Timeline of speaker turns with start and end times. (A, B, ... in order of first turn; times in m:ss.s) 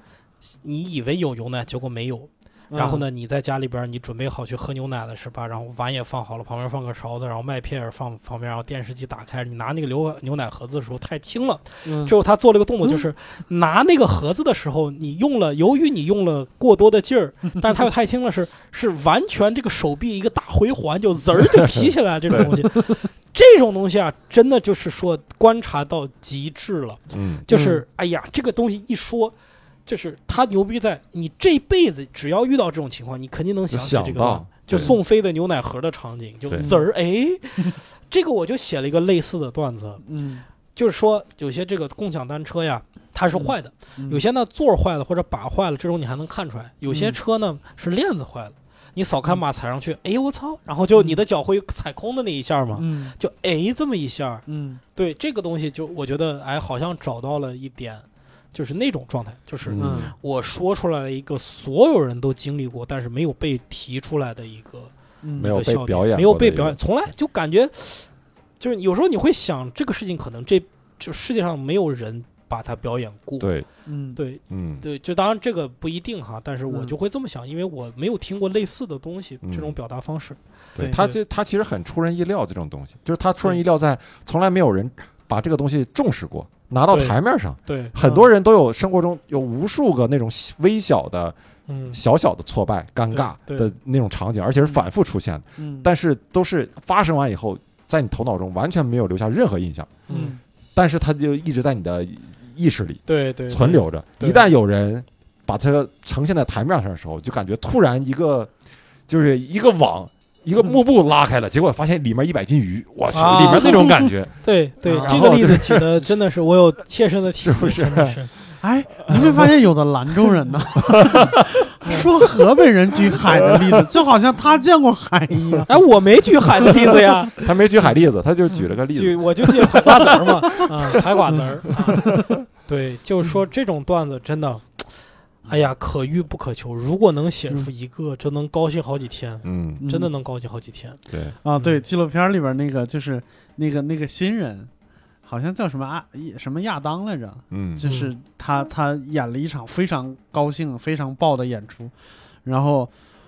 0:00.4-0:29.3 A
0:02.7-0:03.0 B
0:11.8-0:12.1 B
0:21.6-0:22.5 C
0:27.1-0:27.5 C
0:27.5-0:27.8 B
0:29.8-0:40.0 A
0:33.7-0:34.9 C
0:36.6-0:36.8 B
0:40.0-0:40.4 B
0:40.7-1:13.5 A
0:43.3-0:44.2 B
0:46.9-0:47.2 B
0:50.9-0:51.2 B
0:52.8-0:53.2 B
0:54.5-0:54.8 B
0:59.6-1:00.1 C
0:59.8-1:00.1 B
1:05.2-1:05.6 B
1:05.4-1:06.8 C
1:13.4-1:13.7 C
1:13.8-1:14.2 B
1:14.2-1:21.2 A
1:14.5-1:14.8 C
1:16.7-1:16.9 B
1:19.4-1:19.7 C
1:20.8-1:31.4 C
1:26.9-1:28.2 A
1:31.7-1:32.0 A
1:31.9-1:40.0 C
1:33.1-1:33.7 A
1:35.6-1:35.9 B
1:40.1-1:40.4 A
1:40.1-1:40.4 B
1:40.7-1:48.5 C
1:43.1-1:44.4 A
1:49.1-1:55.9 C
1:53.1-1:58.3 A
1:54.8-1:55.2 B
1:57.4-1:58.3 C
1:58.6-2:05.7 B
1:59.0-1:59.4 C
2:00.9-2:01.9 C
2:05.7-2:07.9 A
2:06.6-2:07.2 B
2:07.4-2:10.6 C
2:08.9-2:21.0 A
2:12.0-2:12.3 B
2:19.4-2:19.8 C
2:19.8-2:20.1 B
2:21.1-2:21.4 C
2:21.4-2:24.7 B
2:21.5-2:21.8 A
2:25.2-2:31.9 B
2:27.5-2:27.9 C
2:27.8-2:28.1 A
2:32.4-2:32.9 B